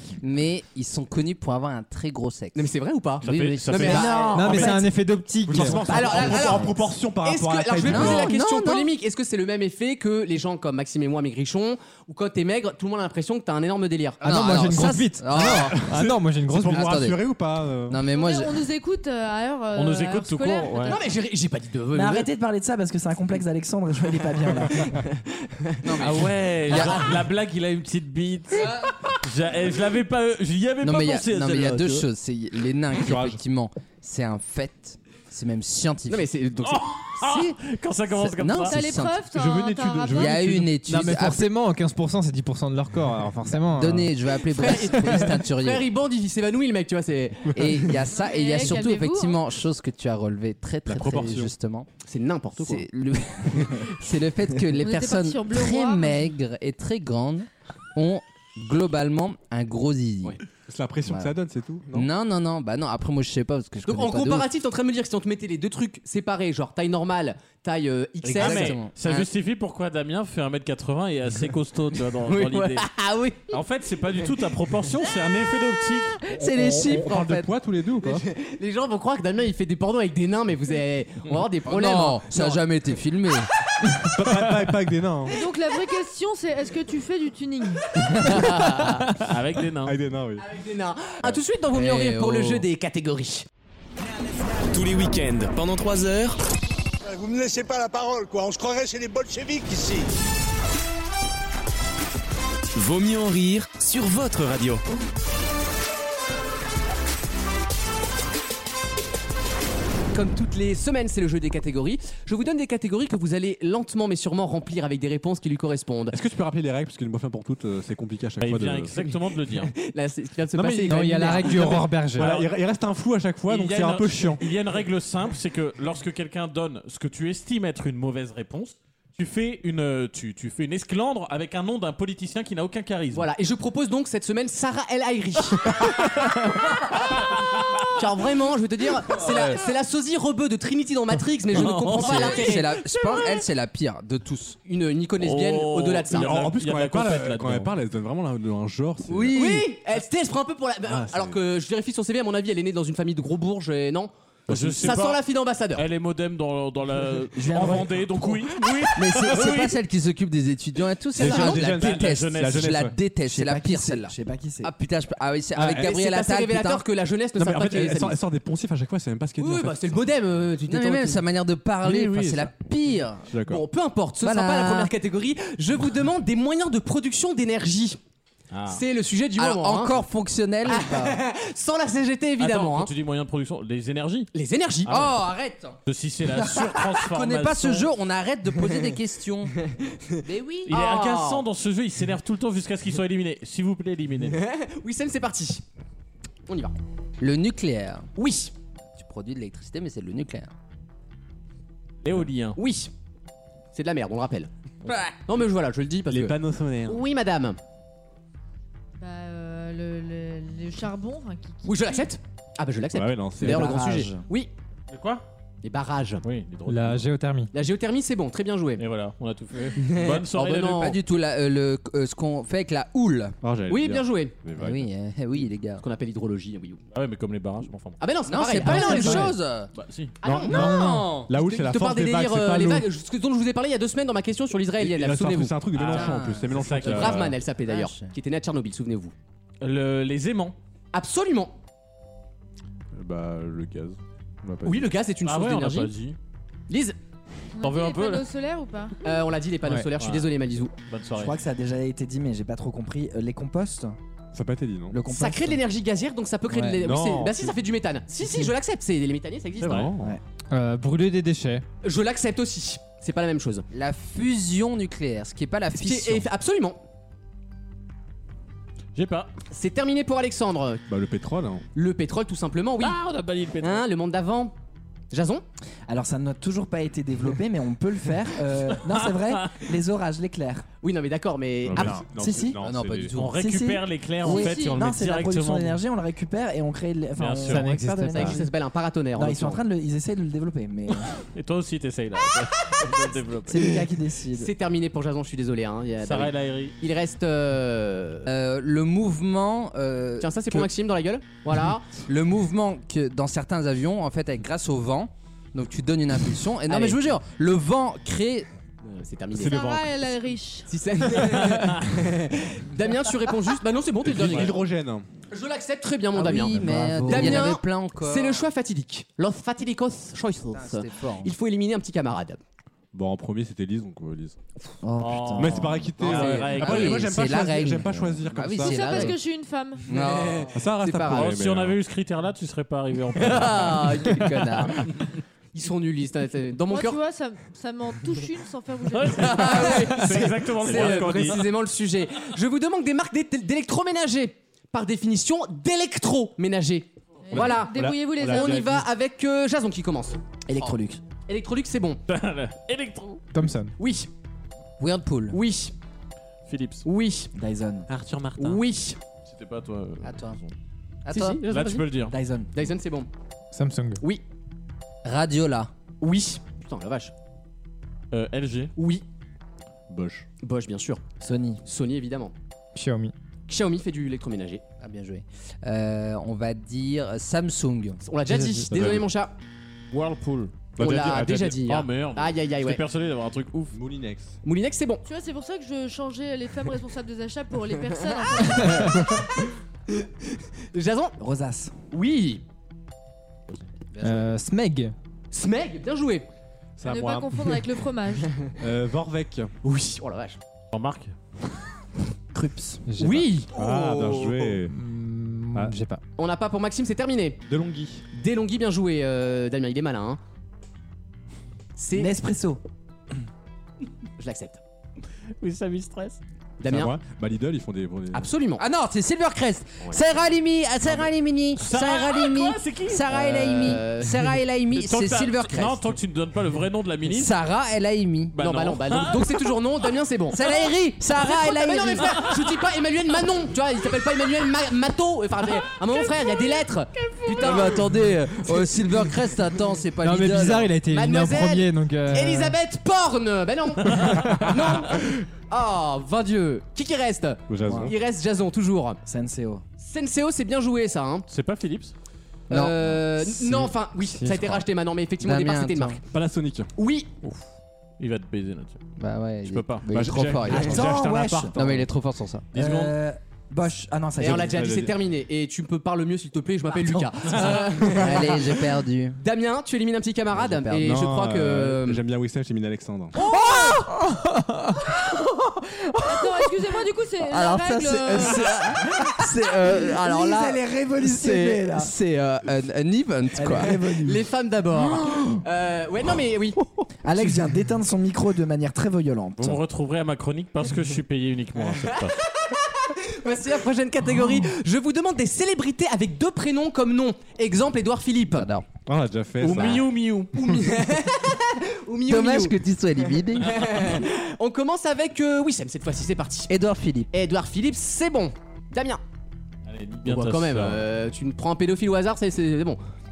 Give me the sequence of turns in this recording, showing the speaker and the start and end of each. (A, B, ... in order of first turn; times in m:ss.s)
0:00.2-0:04.2 A
0:02.6-0:04.5 B
0:03.2-0:04.1 C
0:03.7-0:04.9 D
0:04.3-0:04.8 E
0:04.3-0:06.3 F
0:05.5-0:08.3 E
0:05.7-0:06.7 D
0:05.9-0:14.2 B
0:07.8-0:08.9 A
0:14.2-0:17.0 F
0:14.2-0:15.9 A
0:15.8-0:18.0 E
0:16.7-0:17.2 A
0:17.9-0:18.6 A
0:18.1-0:21.0 G
0:19.7-0:21.0 C
0:20.9-0:22.3 B
0:21.9-0:25.0 D
0:24.4-0:27.1 B
0:25.8-0:27.1 A
0:26.0-0:32.1 C
0:30.8-0:36.3 A
0:33.0-0:33.4 E
0:36.1-0:36.9 B
0:36.6-0:38.8 C
0:37.2-0:37.5 A
0:38.1-0:39.3 A
0:38.6-0:40.4 G
0:39.3-0:40.8 E
0:40.1-0:41.5 A
0:40.9-0:44.1 F
0:43.8-0:45.9 A
0:44.5-0:47.5 B
0:47.5-0:51.9 A
0:48.1-0:49.4 G
0:50.9-0:51.5 E
0:52.0-0:52.9 B
0:52.6-1:00.4 A
0:54.8-0:56.2 G
1:00.7-1:02.1 E
1:01.1-1:01.3 A
1:01.9-1:04.5 A
1:03.9-1:08.9 B
1:08.2-1:09.3 A
1:08.3-1:12.9 C
1:12.3-1:13.4 A
1:13.5-1:16.2 C
1:16.3-1:17.5 A
1:16.6-1:18.3 E
1:18.0-1:22.6 B
1:21.7-1:23.5 A
1:24.1-1:25.3 E
1:25.3-1:27.9 G
1:28.3-1:29.0 B
1:28.8-1:30.0 C
1:29.8-1:30.5 E
1:30.4-1:33.4 B
1:31.7-1:32.7 A
1:34.7-1:36.4 H
1:37.1-1:40.0 I
1:42.7-1:44.8 H
1:50.1-1:56.2 B
1:56.1-1:59.0 E
1:58.4-1:59.7 C
1:59.6-2:01.9 B
2:00.5-2:04.4 E
2:00.9-2:02.4 F
2:02.2-2:02.5 C
2:03.5-2:13.3 C
2:13.1-2:16.3 B
2:16.0-2:16.4 C
2:17.5-2:17.8 C
2:17.9-2:22.7 B
2:21.5-2:23.4 C
2:21.8-2:24.6 A
2:24.7-2:26.4 B
2:25.2-2:27.7 C
2:26.1-2:29.4 E
2:29.1-2:29.7 A
2:29.3-2:35.8 B
2:30.9-2:31.4 E
2:34.5-2:35.2 C
2:35.7-2:39.7 C
2:37.4-2:38.4 D
2:39.0-2:46.8 A
2:41.2-2:41.8 B
2:41.2-2:43.0 E
2:41.6-2:42.8 C
2:43.2-2:44.7 D
2:45.6-2:45.9 E
2:45.7-2:48.2 B
2:47.4-2:50.1 E
2:49.4-2:51.2 B
2:50.7-2:53.3 A
2:51.9-2:52.4 E
2:53.3-2:53.6 E
2:53.5-2:58.0 B
2:54.2-2:54.9 A
2:58.5-2:58.8 C
2:58.7-3:00.0 B
2:59.4-3:01.2 A
3:00.7-3:02.9 B
3:02.4-3:04.3 C
3:04.3-3:04.9 B
3:04.9-3:05.2 C
3:04.9-3:05.8 A
3:05.8-3:07.9 C
3:07.0-3:09.6 A
3:09.8-3:11.4 B
3:10.2-3:10.7 A
3:10.7-3:14.4 C
3:14.3-3:15.6 B
3:16.5-3:16.8 B
3:17.2-3:18.1 A
3:18.2-3:18.5 B
3:19.0-3:20.5 A
3:22.0-3:22.6 C
3:22.6-3:22.9 B
3:23.7-3:24.5 B
3:24.9-3:25.2 A
3:25.3-3:27.6 B
3:26.1-3:27.0 E
3:29.0-3:32.1 G
3:31.6-3:34.5 B
3:32.9-3:33.8 E
3:33.4-3:34.2 D
3:34.9-3:35.2 C
3:35.6-3:36.2 B
3:36.2-3:37.1 C
3:36.7-3:37.5 F
3:37.5-3:38.8 B
3:38.8-3:41.0 C
3:39.8-3:41.0 B
3:40.7-3:43.4 A
3:43.4-3:44.9 E
3:43.7-3:44.4 B
3:44.6-3:45.8 A
3:45.8-3:46.8 B
3:46.9-3:48.0 C
3:48.0-3:49.4 B
3:48.3-3:49.7 A
3:48.7-3:49.0 E
3:49.7-3:50.2 C
3:50.2-3:56.1 B
3:50.2-3:52.9 E
3:50.4-3:51.3 A
3:54.8-3:57.4 E
3:55.7-3:57.3 C
3:55.9-3:58.1 A
3:56.6-3:59.1 B
3:59.6-4:00.6 C
4:00.9-4:01.6 B
4:03.0-4:04.9 E
4:04.6-4:05.9 B
4:05.2-4:06.2 C
4:06.7-4:07.0 B
4:07.6-4:09.0 G
4:07.6-4:08.3 C
4:09.0-4:10.7 B
4:09.6-4:09.9 F
4:10.0-4:10.3 C
4:10.9-4:11.4 C
4:11.1-4:14.0 D
4:14.3-4:15.0 E
4:14.9-4:15.6 D
4:15.1-4:19.9 B
4:16.5-4:16.8 F
4:16.8-4:17.6 E
4:19.6-4:20.0 C
4:20.5-4:21.6 F
4:21.8-4:23.7 B
4:23.7-4:26.3 A
4:25.8-4:26.8 B
4:29.0-4:29.3 C
4:29.5-4:30.8 B
4:30.9-4:31.6 E
4:31.8-4:33.0 B
4:32.8-4:33.9 C
4:33.6-4:34.5 B
4:35.1-4:35.4 B
4:35.9-4:40.6 D
4:38.9-4:39.5 C
4:40.8-4:42.0 B
4:41.7-4:43.2 E
4:41.9-4:42.6 D
4:42.6-4:43.4 A
4:43.1-4:45.8 C
4:43.3-4:48.5 D
4:44.2-4:44.8 G
4:47.2-4:47.8 C
4:47.4-4:48.4 F
4:48.1-4:49.6 B
4:49.2-4:51.1 D
4:50.9-4:53.8 C
4:53.5-4:54.5 D
4:54.3-4:58.3 B
4:56.0-4:56.8 C
4:58.3-5:00.6 A
5:00.2-5:01.9 B
5:02.1-5:08.5 A
5:06.7-5:07.0 B
5:08.8-5:09.6 B
5:09.3-5:10.0 E
5:09.4-5:10.7 G
5:10.7-5:14.6 B
5:11.4-5:11.7 C
5:14.0-5:15.0 E
5:15.3-5:22.4 B
5:16.2-5:18.5 A
5:16.6-5:17.5 D
5:20.6-5:21.3 A
5:22.9-5:24.4 E
5:24.8-5:25.9 D
5:24.9-5:29.2 A
5:25.0-5:27.1 C
5:25.4-5:29.1 E
5:26.1-5:26.5 B
5:28.6-5:29.8 G
5:29.9-5:30.5 A
5:29.9-5:31.3 B
5:30.5-5:31.8 E
5:31.1-5:34.0 C
5:33.2-5:34.8 B
5:34.1-5:34.9 A
5:35.5-5:37.0 B
5:36.7-5:39.9 G
5:38.9-5:41.4 C
5:39.1-5:52.0 B
5:40.6-5:41.5 E
5:47.3-5:48.6 G
5:47.3-5:48.9 E
5:50.5-5:51.0 D
5:52.1-5:53.2 C
5:53.3-5:53.7 F
5:53.8-5:54.1 B
5:54.8-5:55.4 A
5:55.3-5:55.7 B
5:56.5-5:56.9 C
5:56.9-5:57.3 B
5:57.4-5:57.9 D
5:57.9-5:58.6 C
5:58.4-5:59.0 B
5:59.2-6:00.5 C
6:00.0-6:00.4 A
6:01.0-6:01.4 A
6:01.1-6:03.1 B
6:01.5-6:02.2 C
6:02.1-6:02.5 D
6:03.5-6:04.0 F
6:05.0-6:05.7 A
6:06.0-6:07.1 B
6:08.1-6:08.7 C
6:08.8-6:09.0 B
6:09.9-6:10.2 E
6:10.4-6:11.0 B
6:11.2-6:11.6 D
6:11.6-6:12.3 B
6:12.8-6:13.1 F
6:13.5-6:14.6 B
6:14.8-6:18.0 A
6:18.0-6:19.3 B
6:18.3-6:18.7 F
6:18.7-6:19.1 E
6:19.9-6:20.6 C
6:20.8-6:21.6 E
6:20.8-6:22.8 B
6:21.7-6:23.8 C
6:23.7-6:24.4 E
6:24.4-6:25.0 B
6:25.0-6:29.0 G
6:27.9-6:29.5 B
6:30.7-6:31.2 B
6:31.2-6:31.7 D
6:31.9-6:32.4 B
6:34.0-6:34.3 A
6:34.0-6:34.9 F
6:35.3-6:36.3 B
6:36.8-6:37.6 E
6:36.8-6:38.3 G
6:38.6-6:39.5 E
6:39.6-6:40.4 B
6:40.7-6:41.1 C
6:42.3-6:42.8 A
6:42.9-6:43.3 F
6:43.0-6:44.6 B
6:43.5-6:44.8 E
6:44.7-6:46.0 F
6:46.2-6:47.4 B
6:47.5-6:48.0 E
6:48.1-6:50.2 B
6:51.8-6:52.1 B
6:52.0-6:52.6 D
6:54.2-6:54.6 B
6:55.4-6:56.2 C
6:56.6-6:56.9 B
6:56.7-6:58.3 E
6:58.1-6:58.6 B
6:58.6-7:05.9 A
7:01.6-7:03.8 C
7:03.6-7:04.4 B
7:04.7-7:07.4 C
7:07.1-7:08.4 A
7:08.3-7:09.6 C
7:08.4-7:10.6 B
7:10.3-7:12.3 A
7:11.1-7:18.7 B
7:17.2-7:17.7 C
7:17.4-7:20.7 A
7:20.0-7:22.6 F
7:20.8-7:29.0 B
7:27.5-7:27.9 E
7:27.6-7:27.9 D
7:29.0-7:29.6 D
7:29.8-7:31.3 B
7:31.3-7:31.9 C
7:32.5-7:33.7 A
7:32.5-7:36.0 B
7:34.2-7:34.6 F
7:35.2-7:36.0 A
7:36.1-7:36.7 E
7:36.8-7:37.1 B
7:38.0-7:38.8 C
7:39.0-7:40.9 A
7:39.4-7:40.7 C
7:39.9-7:41.6 E
7:40.6-7:41.6 D
7:41.6-7:42.5 A
7:42.5-7:44.8 D
7:42.6-7:42.9 C
7:44.2-7:48.6 B
7:44.2-7:44.9 E
7:47.4-7:47.8 E
7:47.9-7:49.2 A
7:49.2-7:52.0 B
7:50.4-7:51.1 A
7:50.8-7:53.2 E
7:53.2-7:53.8 A
7:53.4-7:53.8 D
7:56.0-7:58.6 G
7:57.2-8:03.8 A
7:58.0-8:01.9 D
8:03.3-8:04.2 D
8:03.7-8:06.6 B
8:07.0-8:09.6 D
8:09.4-8:12.2 C
8:12.9-8:18.5 B
8:18.3-8:18.7 A
8:18.9-8:19.9 E
8:19.4-8:20.3 C
8:20.3-8:22.6 B
8:22.1-8:23.6 A
8:23.4-8:26.5 B
8:26.5-8:27.1 A
8:27.1-8:29.0 B
8:29.6-8:30.8 C
8:30.0-8:32.8 B